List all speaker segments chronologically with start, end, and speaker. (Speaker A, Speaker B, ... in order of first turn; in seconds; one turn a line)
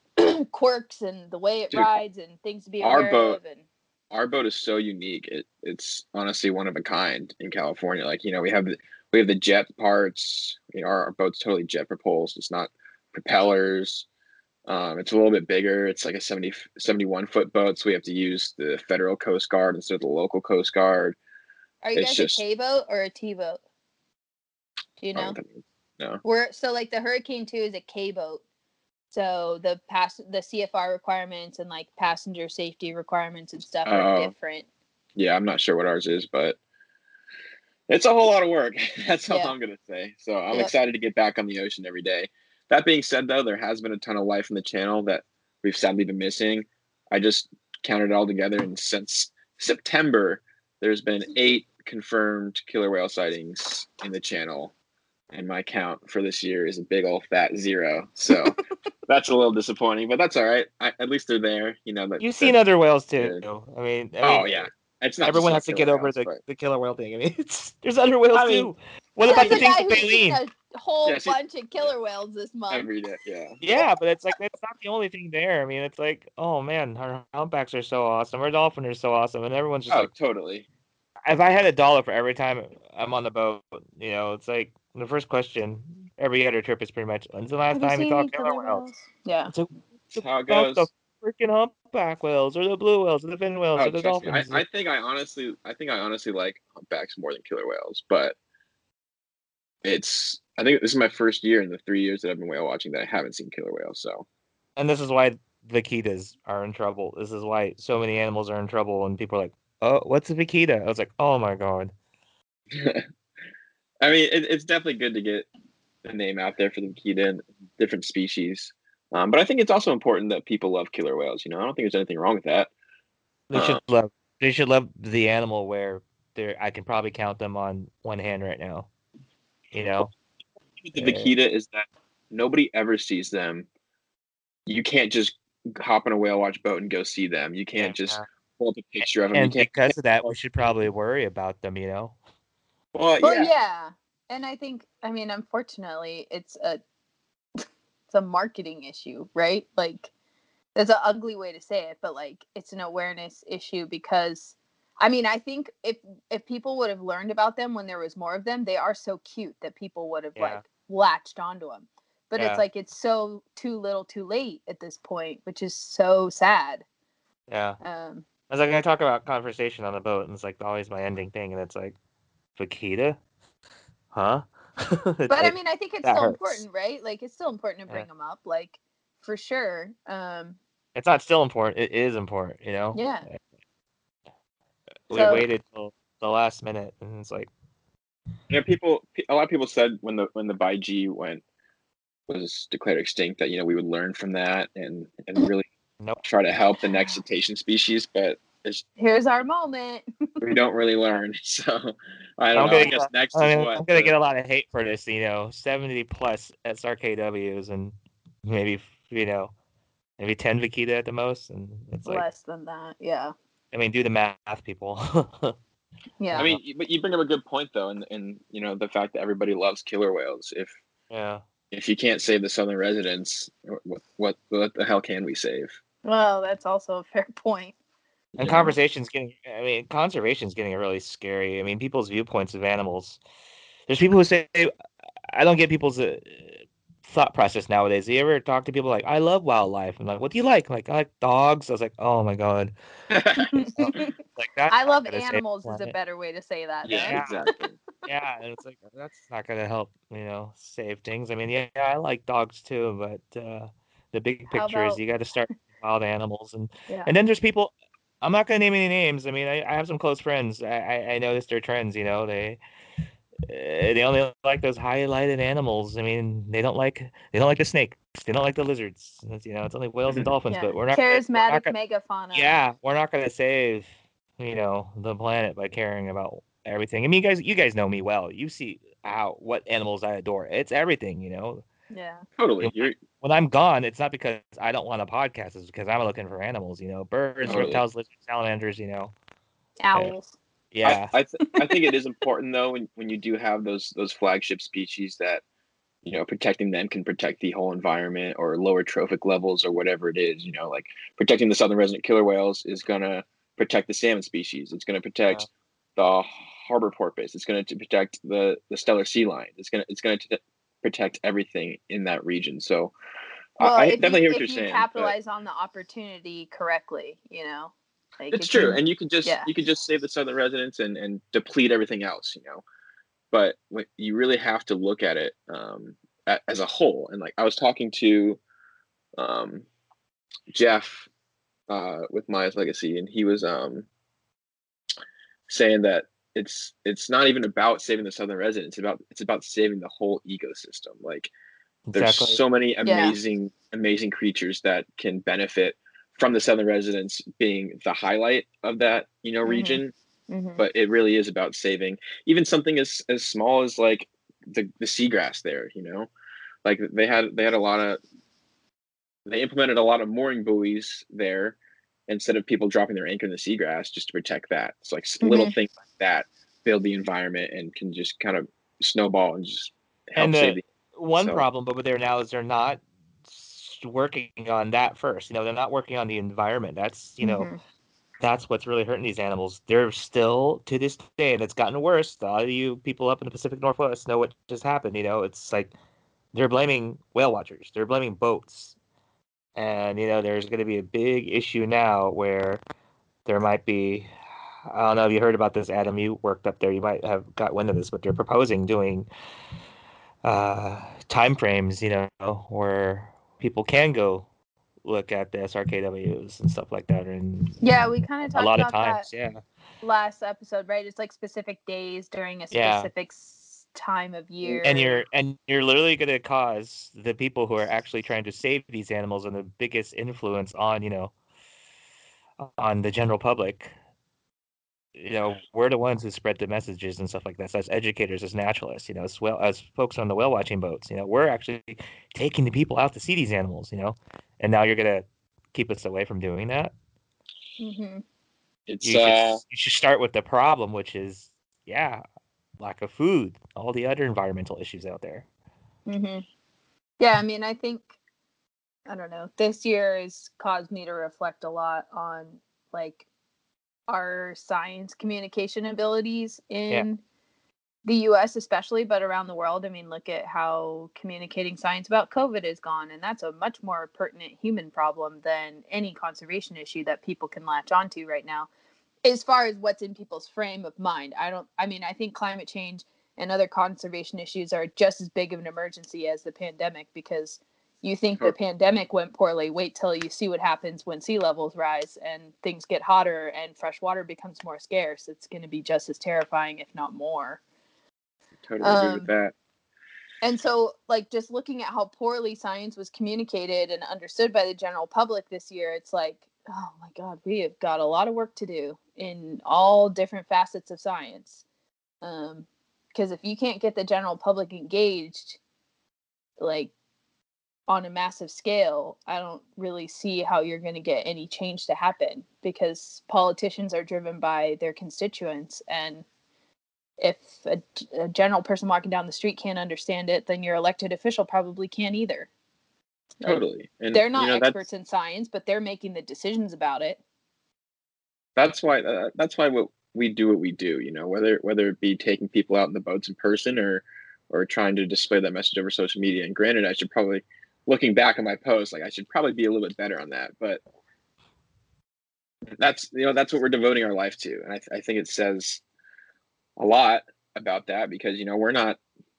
Speaker A: 0.2-3.7
Speaker B: 2.8-3.4
Speaker B: 4.1-14.1
Speaker B: 14.7-21.2
Speaker A: 21.8-23.6
Speaker B: 21.9-22.4
Speaker A: 25.0-25.4
Speaker B: 25.1-26.2
Speaker A: 26.2-28.4
Speaker A: 29.1-34.7
Speaker B: 33.9-34.3
Speaker B: 35.2-36.6
Speaker B: 37.9-54.7
Speaker A: 39.3-39.5
Speaker B: 55.3-62.5
Speaker C: 62.2-64.7
Speaker B: 63.2-63.4
Speaker B: 64.2-66.4
Speaker C: 65.2-70.4
Speaker B: 68.3-68.7
Speaker A: 69.2-72.9
Speaker B: 69.3-69.8
Speaker B: 71.0-71.4
Speaker B: 72.7-73.8
Speaker C: 73.6-80.1
Speaker B: 79.9-80.7
Speaker C: 81.3-88.9
Speaker A: 87.7-89.5
Speaker C: 89.5-94.6
Speaker B: 90.1-90.9
Speaker B: 93.8-98.4
Speaker B: 99.8-104.3
Speaker C: 104.8-111.9
Speaker B: 112.7-113.0
Speaker B: 114.0-115.5
Speaker B: 116.0-122.7
Speaker C: 123.5-128.9
Speaker B: 123.5-123.8
Speaker C: 129.7-130.1
Speaker B: 130.9-133.7
Speaker C: 130.9-131.3
Speaker B: 134.7-140.3
Speaker C: 137.8-138.2
Speaker C: 139.3-142.2
Speaker B: 142.9-143.5
Speaker A: 143.2-146.8
Speaker A: 147.6-150.1
Speaker A: 150.8-166.8
Speaker C: 160.4-160.6
Speaker C: 162.4-162.6
Speaker C: 167.5-167.8
Speaker A: 167.8-168.3
Speaker C: 168.5-171.9
Speaker C: 172.6-173.2
Speaker C: 174.1-176.6
Speaker A: 175.3-180.6
Speaker C: 180.9-183.4
Speaker A: 182.9-183.3
Speaker C: 185.1-187.5
Speaker B: 185.1-185.5
Speaker A: 185.1-185.4
Speaker B: 188.5-191.4
Speaker B: 192.3-195.7
Speaker B: 196.2-198.8
Speaker A: 199.0-200.4
Speaker B: 200.4-204.1
Speaker C: 202.6-209.5
Speaker C: 210.2-212.2
Speaker A: 212.1-213.3
Speaker C: 213.7-215.6
Speaker A: 216.2-216.5
Speaker C: 216.3-216.6
Speaker B: 216.4-220.8
Speaker C: 221.1-221.4
Speaker B: 221.7-225.8
Speaker A: 226.1-227.8
Speaker B: 228.4-228.7
Speaker C: 228.4-233.2
Speaker C: 233.9-234.7
Speaker C: 235.3-242.7
Speaker B: 243.1-244.0
Speaker A: 243.4-244.1
Speaker C: 243.8-245.9
Speaker A: 244.7-247.2
Speaker B: 246.8-247.8
Speaker C: 246.9-247.5
Speaker C: 248.1-262.6
Speaker A: 254.5-255.0
Speaker C: 263.5-271.7
Speaker B: 270.1-270.3
Speaker A: 270.5-272.6
Speaker C: 272.3-281.6
Speaker A: 281.9-282.2
Speaker B: 282.4-282.9
Speaker C: 282.6-289.1
Speaker B: 287.5-287.8
Speaker A: 289.8-290.4
Speaker C: 290.7-291.1
Speaker B: 290.8-295.4
Speaker A: 291.5-291.9
Speaker B: 296.0-312.9
Speaker B: 313.6-315.1
Speaker A: 313.6-319.5
Speaker B: 318.3-322.6
Speaker B: 323.3-328.4
Speaker B: 329.2-329.7
Speaker B: 330.5-331.1
Speaker B: 331.7-333.9
Speaker B: 335.5-341.3
Speaker C: 341.9-342.4
Speaker B: 341.9-349.9
Speaker A: 342.9-343.2
Speaker A: 349.4-350.6
Speaker B: 350.6-356.1
Speaker B: 356.6-358.0
Speaker B: 359.3-361.6
Speaker B: 362.1-370.6
Speaker A: 365.2-365.5
Speaker C: 370.2-377.5
Speaker B: 371.2-371.4
Speaker A: 377.2-377.6
Speaker C: 378.2-385.7
Speaker C: 386.3-388.8
Speaker C: 389.6-392.6
Speaker C: 393.3-394.1
Speaker C: 394.7-399.1
Speaker C: 400.2-404.3
Speaker C: 404.8-409.4
Speaker A: 407.6-409.1
Speaker A: 409.8-415.0
Speaker C: 412.5-412.9
Speaker B: 414.4-414.7
Speaker C: 414.6-421.1
Speaker C: 422.4-423.7
Speaker C: 425.0-436.7
Speaker A: 437.6-438.0
Speaker B: 438.7-439.4
Speaker C: 438.8-442.0
Speaker C: 442.6-445.2
Speaker A: 445.9-446.2
Speaker A: 447.0-447.9
Speaker A: 448.9-453.1
Speaker A: 453.9-457.0
Speaker A: 457.9-468.5
Speaker A: 469.1-487.4
Speaker B: 488.4-489.3
Speaker A: 488.6-489.1
Speaker A: 490.2-501.4
Speaker A: 502.0-505.4
Speaker A: 506.4-506.7
Speaker A: 507.7-516.0
Speaker A: 517.0-522.3
Speaker B: 523.2-524.6
Speaker A: 523.9-527.0
Speaker B: 528.4-540.6
Speaker B: 542.5-545.6
Speaker B: 546.6-548.8